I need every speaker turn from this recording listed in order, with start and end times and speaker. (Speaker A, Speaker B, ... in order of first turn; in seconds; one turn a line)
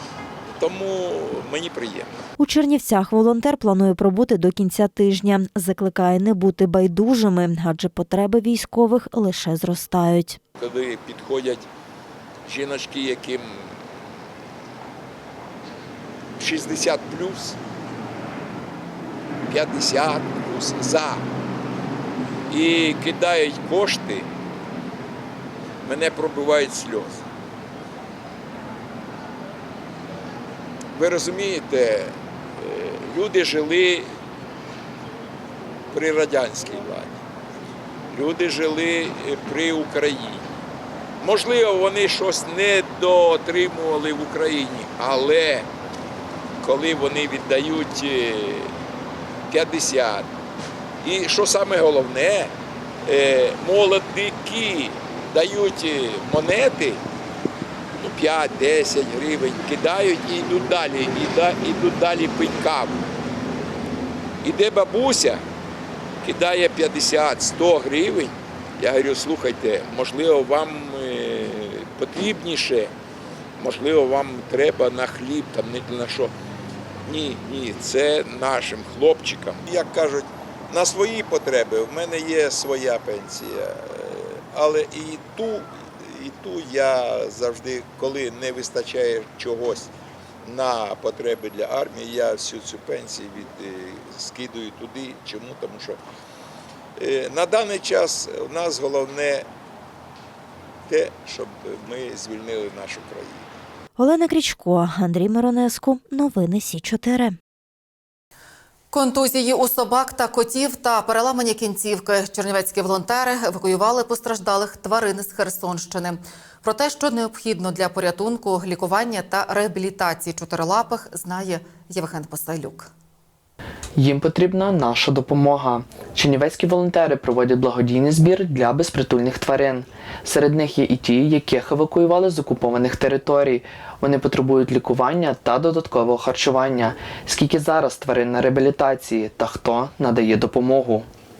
Speaker A: 0.6-2.2
Speaker B: 2.4-10.4
Speaker A: 10.6-11.6
Speaker A: 12.5-13.7
Speaker A: 16.4-17.6
Speaker A: 19.5-21.2
Speaker A: 22.5-24.3
Speaker A: 25.8-27.2
Speaker A: 30.9-34.1
Speaker A: 35.9-37.1
Speaker A: 38.1-40.4
Speaker A: 41.2-45.7
Speaker A: 46.6-48.7
Speaker A: 49.5-50.3
Speaker A: 51.0-52.5
Speaker A: 53.0-57.0
Speaker A: 58.0-63.0
Speaker A: 64.4-65.4
Speaker A: 66.2-72.9
Speaker A: 73.6-76.3
Speaker A: 77.0-89.9
Speaker A: 90.4-96.0
Speaker A: 97.0-99.4
Speaker A: 100.9-103.4
Speaker B: 104.0-107.3
Speaker C: 108.9-122.9
Speaker D: 124.0-141.1